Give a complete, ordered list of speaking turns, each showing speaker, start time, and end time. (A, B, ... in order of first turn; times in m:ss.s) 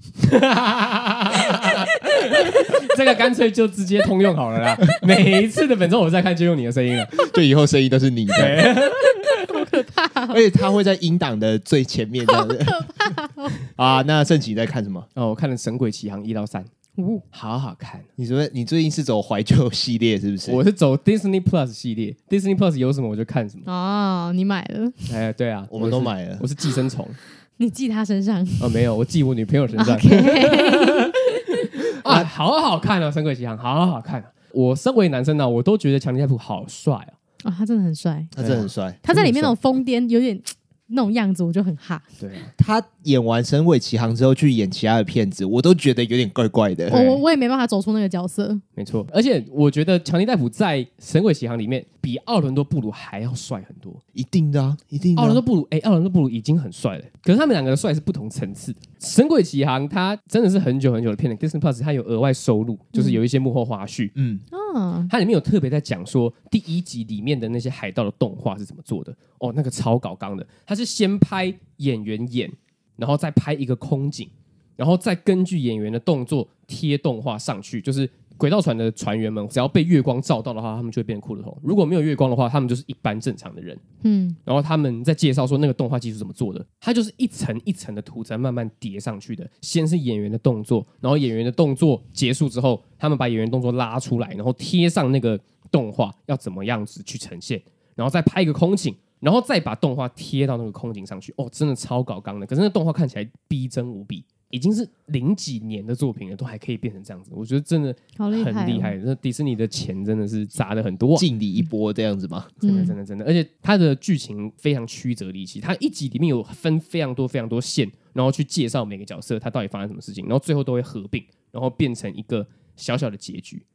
0:00.2-0:07.2 A
0:07.2-0:08.7 B
0:08.4-0:09.6 A
0:09.1-0:10.4 C
0:10.3-0:13.1 B
0:12.2-0:13.6 C
0:13.7-0:15.1 B
0:15.2-0:16.7 A
0:17.0-0:17.2 C
0:17.3-0:18.0 A
0:18.2-0:20.6 B
0:20.5-0:23.6 A
0:23.6-0:25.1 C
0:25.1-0:27.2 A
0:25.7-0:26.4 B
0:27.6-0:28.7 C
0:28.6-0:37.1 A
0:29.8-0:31.1 C
0:32.0-0:32.3 B
0:37.4-0:38.3 C
0:38.3-0:39.5 B
0:38.4-0:38.6 A
0:39.0-0:42.0 C
0:42.2-0:42.5 A
0:42.6-0:47.0 B
0:46.9-0:48.6 C
0:46.9-0:47.2 A
0:48.8-0:54.0 A
0:54.1-0:55.4 B
0:55.2-1:04.1 A
1:02.9-1:03.2 C
1:04.1-1:04.4 B
1:04.5-1:05.1 C
1:05.1-1:23.8 A
1:24.0-1:24.4 C
1:24.4-1:51.2 A
1:48.2-1:48.9 C
1:51.2-1:52.6 B
1:52.6-1:52.9 C
1:52.6-2:03.6 A